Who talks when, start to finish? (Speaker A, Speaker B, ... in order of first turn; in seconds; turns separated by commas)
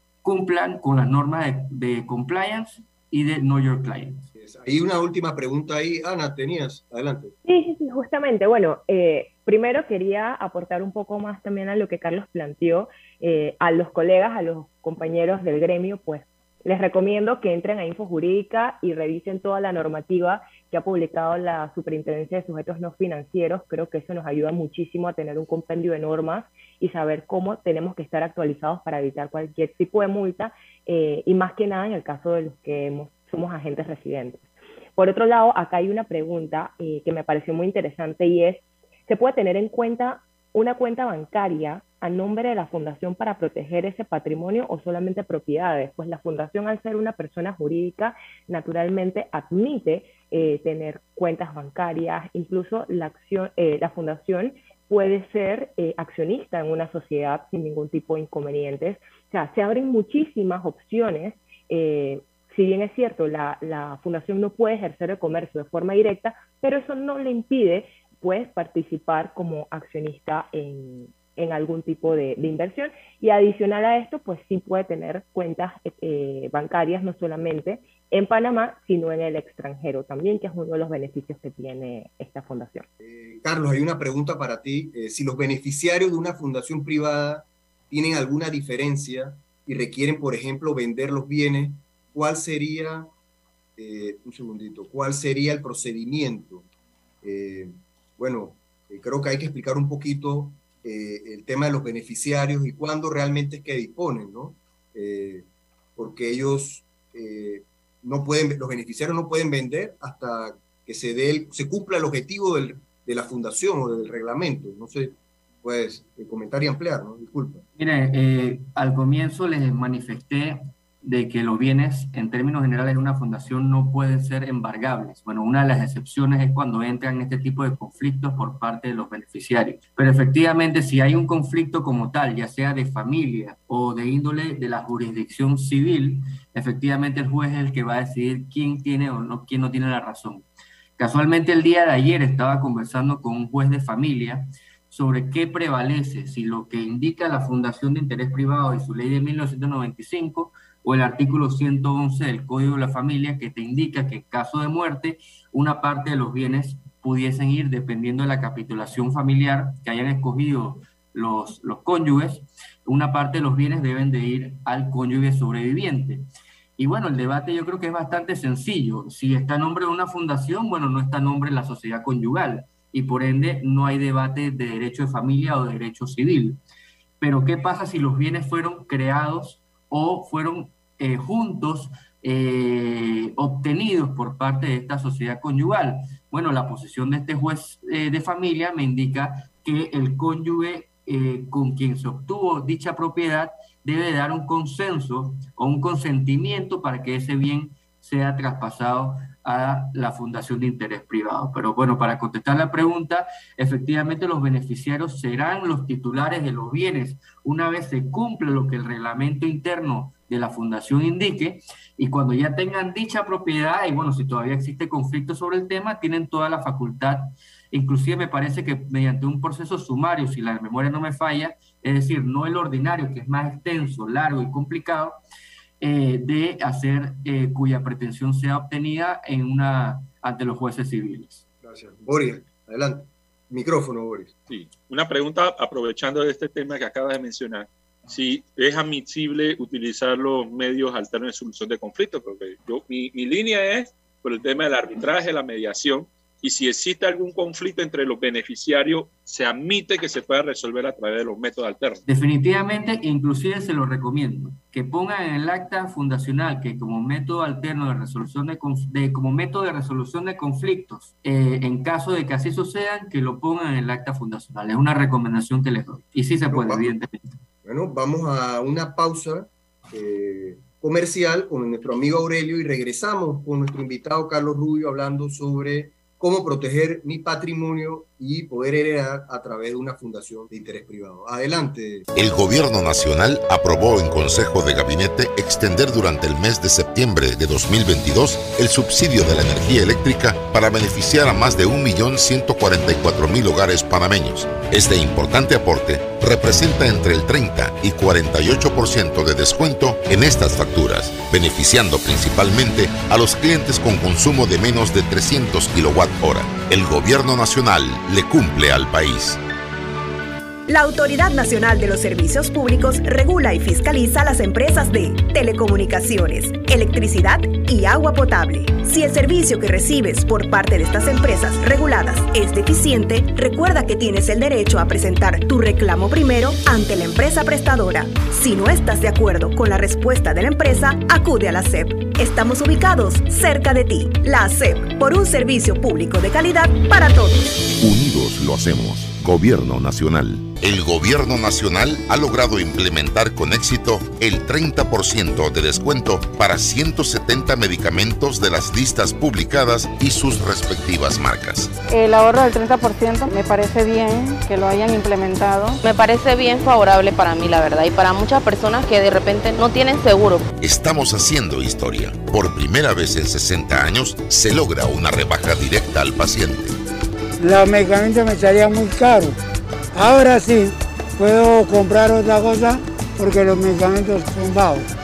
Speaker A: 0.2-4.3, Speaker B: 4.4-7.4, Speaker C: 7.4-82.9, Speaker B: 83.0-93.1, Speaker B: 93.8-96.7, Speaker B: 97.2-117.6, Speaker A: 117.8-140.4, Speaker A: 141.0-166.2, Speaker A: 166.8-176.6, Speaker A: 177.2-225.2, Speaker A: 225.8-231.4, Speaker B: 231.6-234.3, Speaker D: 234.5-252.0, Speaker A: 252.1-267.2, Speaker B: 266.5-266.9, Speaker B: 267.6-282.1, Speaker E: 282.2-309.4, Speaker F: 310.7-337.5, Speaker E: 337.8-351.7, Speaker G: 351.9-355.8, Speaker H: 355.8-360.5, Speaker E: 360.6-366.8, Speaker I: 367.4-369.4, Speaker I: 369.9-374.9